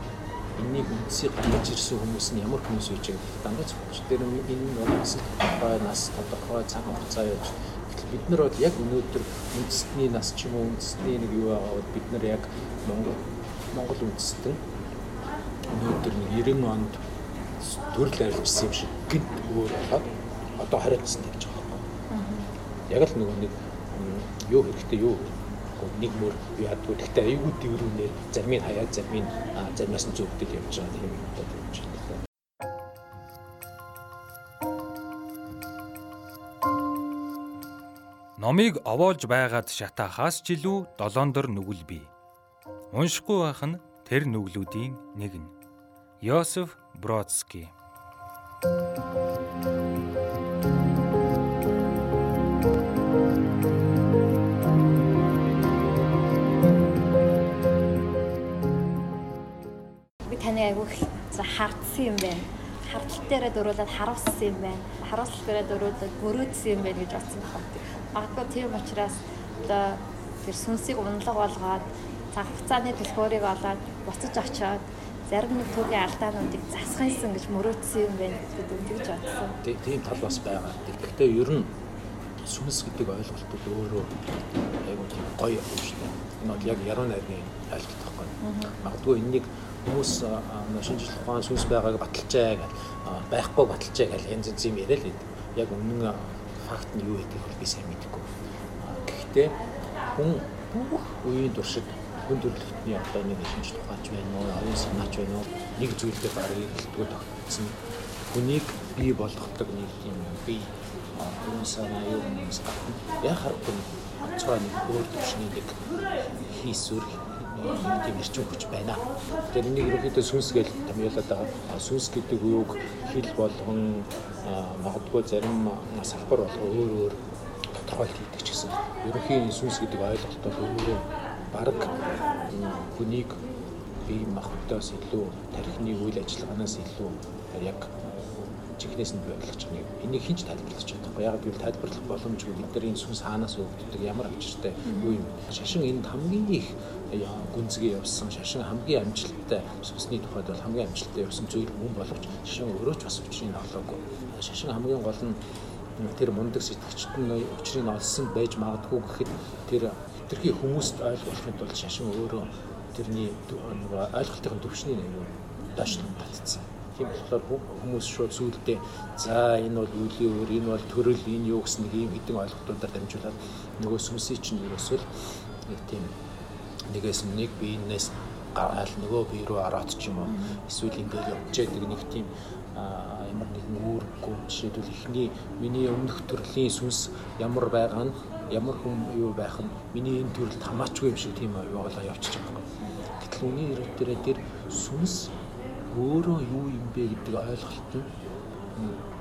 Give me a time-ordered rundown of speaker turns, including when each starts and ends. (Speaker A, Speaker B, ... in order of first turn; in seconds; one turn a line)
Speaker A: 0.6-14.6
Speaker A: 15.7-17.0
Speaker A: 17.6-21.9
Speaker B: 22.1-22.5
Speaker A: 22.9-32.2
Speaker C: 38.4-42.1
Speaker C: 42.9-45.5
Speaker C: 46.2-47.7
Speaker B: 60.3-79.5
Speaker A: 79.6-81.7
Speaker A: 82.4-84.2
Speaker A: 84.8-99.6
Speaker B: 86.5-86.8
Speaker B: 88.4-88.7
Speaker A: 100.1-107.8
Speaker A: 108.3-133.4
Speaker A: 134.1-155.4
Speaker B: 144.8-145.2
Speaker A: 156.0-176.2
Speaker A: 176.9-195.3
Speaker B: 180.3-180.6
Speaker A: 195.9-198.1